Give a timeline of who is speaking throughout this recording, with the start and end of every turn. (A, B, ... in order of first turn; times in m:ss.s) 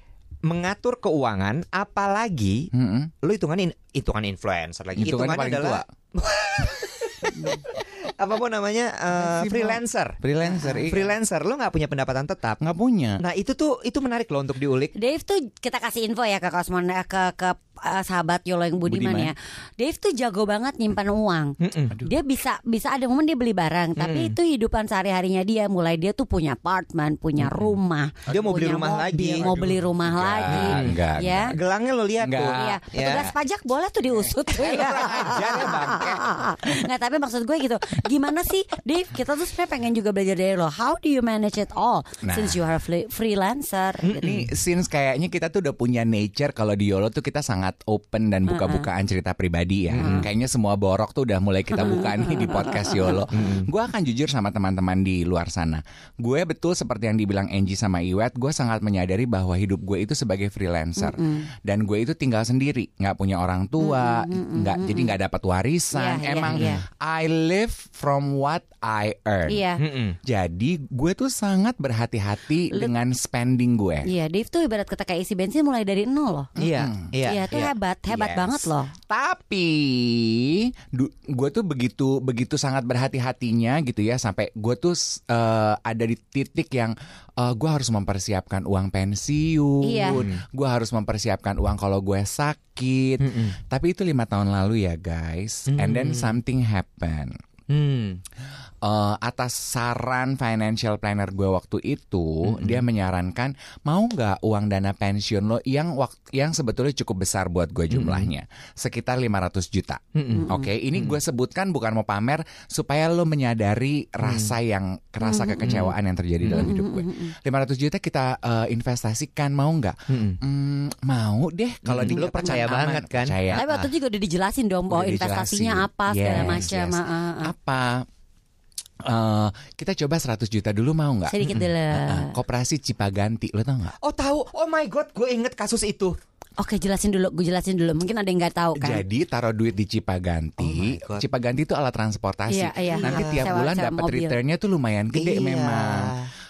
0:00.5-0:02.7 A
0:02.7-0:03.1 B
0:03.2-0:12.6 A
0:05.0-0:05.8 B
0:07.3-0:07.6 C
0:09.1-0:11.2 B
0:10.5-0:10.9 C
0:12.6-0:13.2 B
0:13.2-0:14.9 A
0:15.0-0:21.5 C
0:18.8-0:19.3 B
0:21.6-0:22.0 A
0:22.0-0:31.5 C
0:24.0-0:24.4 A
0:28.3-0:28.6 B
0:28.3-0:29.5 A
0:29.4-0:31.5 B
0:30.5-0:31.0 A
0:31.5-0:33.3 A
0:32.2-0:33.2 B
0:32.5-0:44.4 C
0:34.1-0:36.2 B
0:34.7-0:36.2 A
0:42.2-0:42.6 B
0:44.0-0:44.5 A
0:44.2-1:09.6 B
0:48.5-0:48.9 C
0:49.9-0:50.3 A
0:50.0-0:50.3 C
0:51.7-0:53.2 C
0:53.3-0:53.7 A
1:01.0-1:01.5 C
1:03.8-1:05.2 C
1:05.9-1:06.8 C
1:06.5-1:06.7 A
1:09.5-1:09.8 C
1:09.8-1:10.2 A
1:10.2-1:14.1 B
1:14.0-1:16.5 C
1:16.6-1:17.1 B
1:16.6-1:18.7 A
1:17.2-1:18.9 C
1:19.1-1:37.3 B
1:29.8-1:30.2 C
1:30.1-1:30.4 A
1:33.2-1:33.6 A
1:35.7-1:36.4 A
1:37.7-1:38.2 A
1:38.8-2:03.6 B
1:42.4-1:42.8 A
1:47.9-1:48.3 A
1:50.2-1:51.2 A
1:50.3-1:50.7 C
1:54.2-1:54.6 A
1:55.2-1:55.9 C
1:55.7-1:56.7 A
1:56.5-1:57.3 C
2:00.1-2:00.4 A
2:01.8-2:03.9 A
2:02.1-2:02.7 C
2:03.6-2:07.5 C
2:04.9-2:08.1 B
2:06.4-2:06.7 A
2:09.0-2:14.0 B
2:11.3-2:12.4 C
2:14.0-2:16.2 A
2:16.6-2:19.0 C
2:18.8-2:26.1 B
2:20.6-2:21.3 A
2:22.5-2:24.4 C
2:22.9-2:23.5 A
2:25.2-2:26.3 A